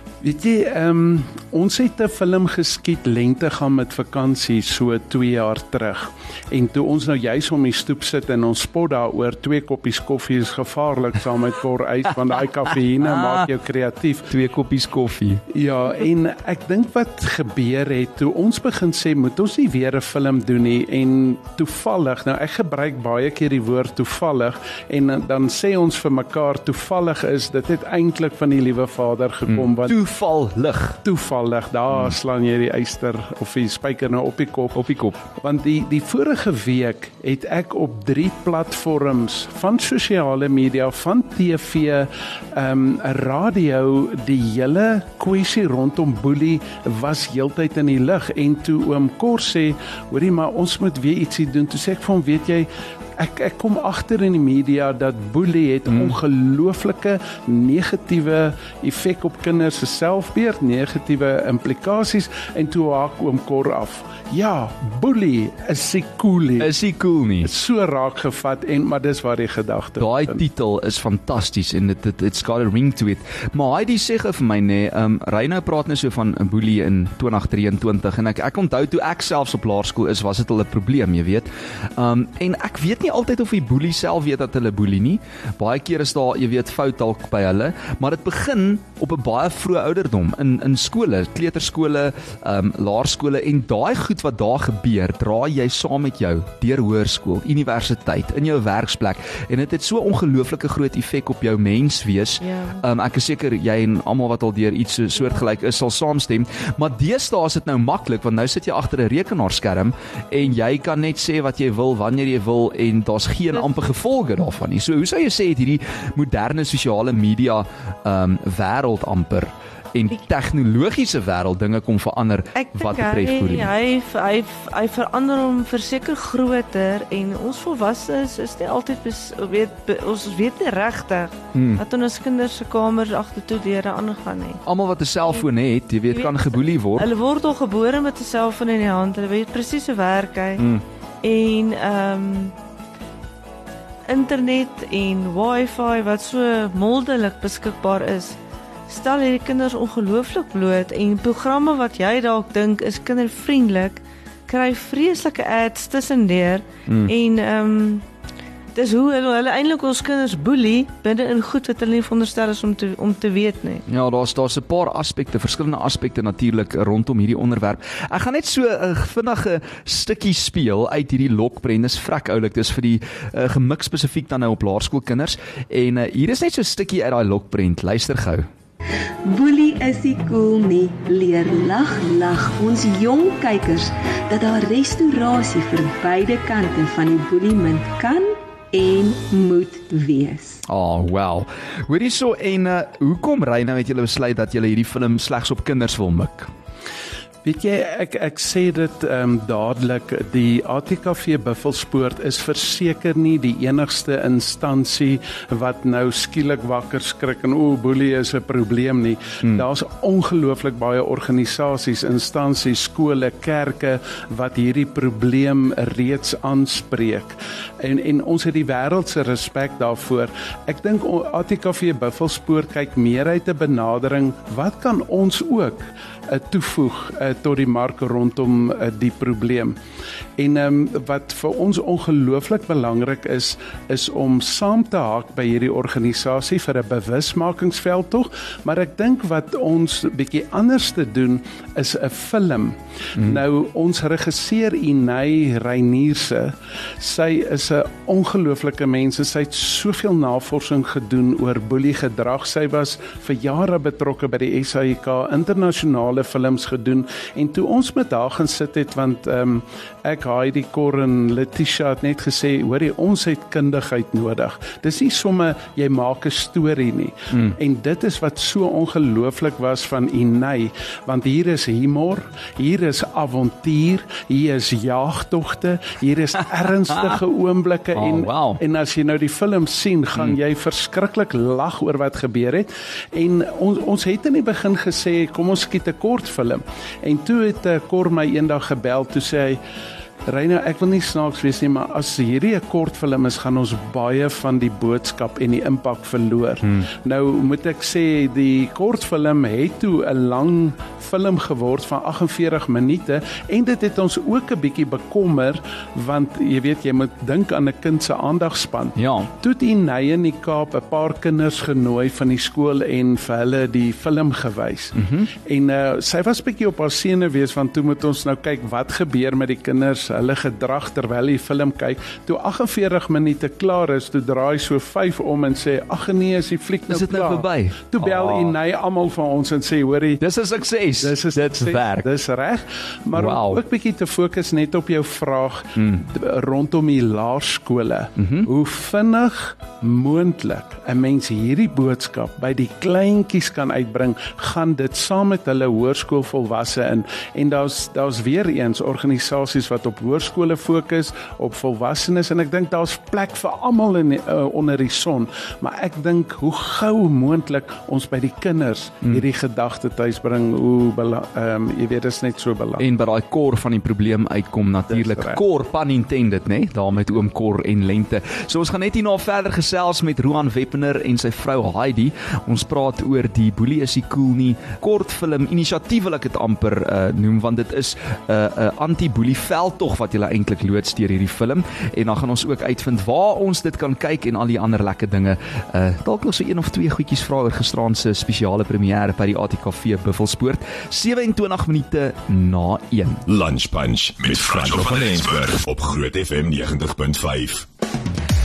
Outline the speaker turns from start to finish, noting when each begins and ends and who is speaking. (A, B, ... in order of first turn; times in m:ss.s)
0:00.2-0:14.3 A
0:13.0-0:13.5 B
0:14.3-0:15.4 B
0:15.5-0:30.0 A
0:29.5-0:31.0 B
0:31.0-0:34.8 A
0:34.7-0:35.2 B
0:35.4-1:06.7 A
0:55.9-0:56.2 B
1:06.6-1:07.5 B
1:07.4-1:10.4 A
1:10.0-2:03.7 B
1:42.4-1:42.8 C
2:02.5-2:14.6 C
2:11.5-2:11.8 B
2:14.6-2:17.1 B
2:16.1-2:20.7 C
2:20.6-2:20.8 B
2:21.2-2:22.5 C
2:24.1-2:28.4 C
2:28.9-2:38.0 C
2:36.9-2:37.1 B
2:38.7-2:43.8 C
2:43.9-2:58.5 B
2:59.2-3:10.6 D
3:10.6-3:16.5 B
3:17.4-3:49.8 A
3:50.4-4:49.6 A
4:37.9-4:38.6 B
4:50.3-5:14.9 A
5:09.0-5:09.3 B
5:14.9-5:15.3 B
5:15.4-5:30.2 A
5:26.9-5:28.5 B
5:30.2-5:32.1 B
5:31.0-6:02.8 A
5:33.1-5:33.6 B
5:35.8-5:36.0 B
5:38.2-5:38.5 B
6:02.8-6:33.2 B
6:04.9-6:05.4 A
6:33.3-6:37.6 E